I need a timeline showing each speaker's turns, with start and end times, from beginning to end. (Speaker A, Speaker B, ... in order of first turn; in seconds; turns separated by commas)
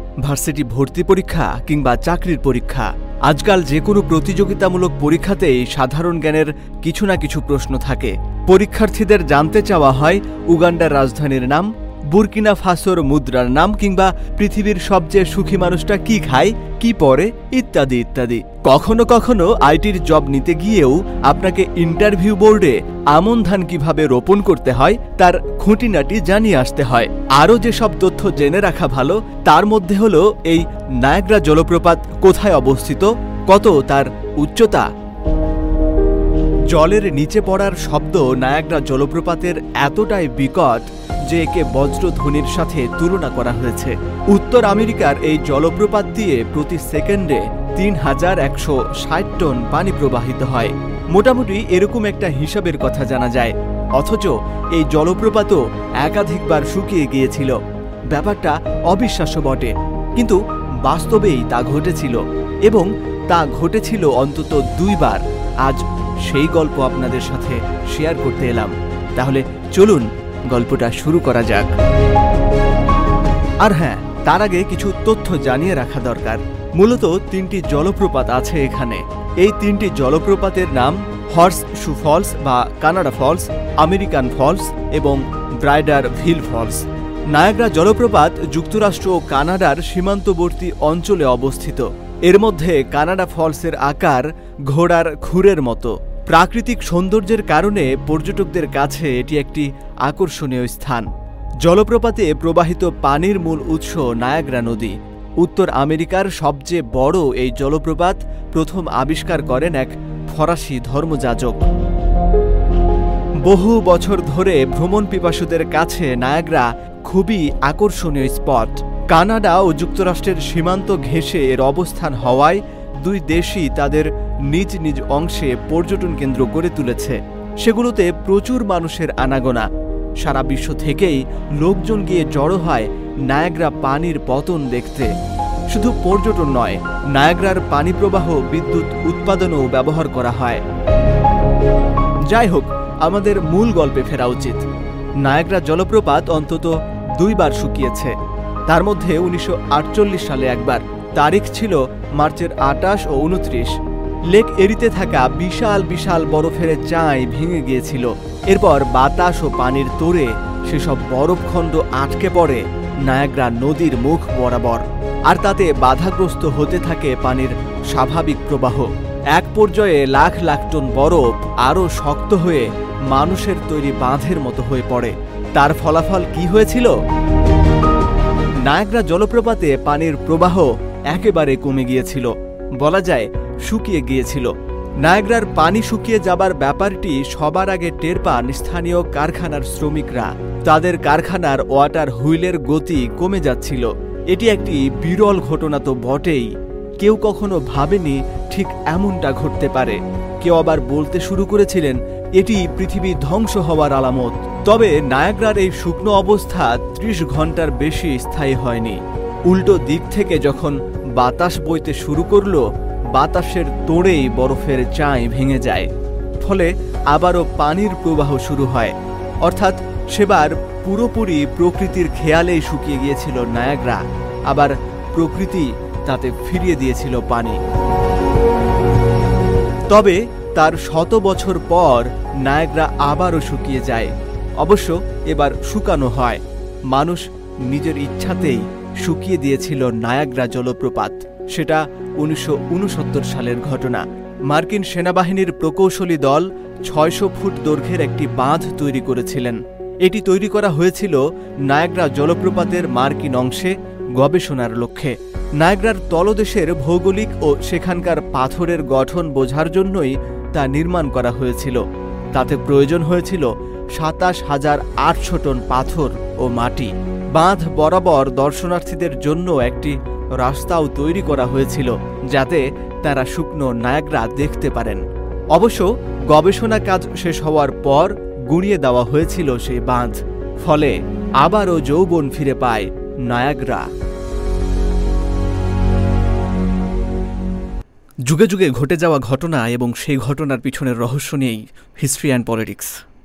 Speaker A: 0.2-34.9, Speaker A: 36.7-57.6, Speaker A: 58.1-71.7, Speaker A: 73.6-101.1, Speaker A: 101.6-111.6, Speaker A: 113.4-129.7, Speaker A: 130.2-135.1, Speaker A: 135.7-140.6, Speaker A: 142.3-144.7, Speaker A: 145.2-148.2, Speaker A: 148.7-153.8, Speaker A: 154.3-176.9, Speaker A: 178.6-184.5, Speaker A: 185.0-215.9, Speaker A: 216.4-227.6, Speaker A: 229.9-283.9, Speaker A: 288.3-293.0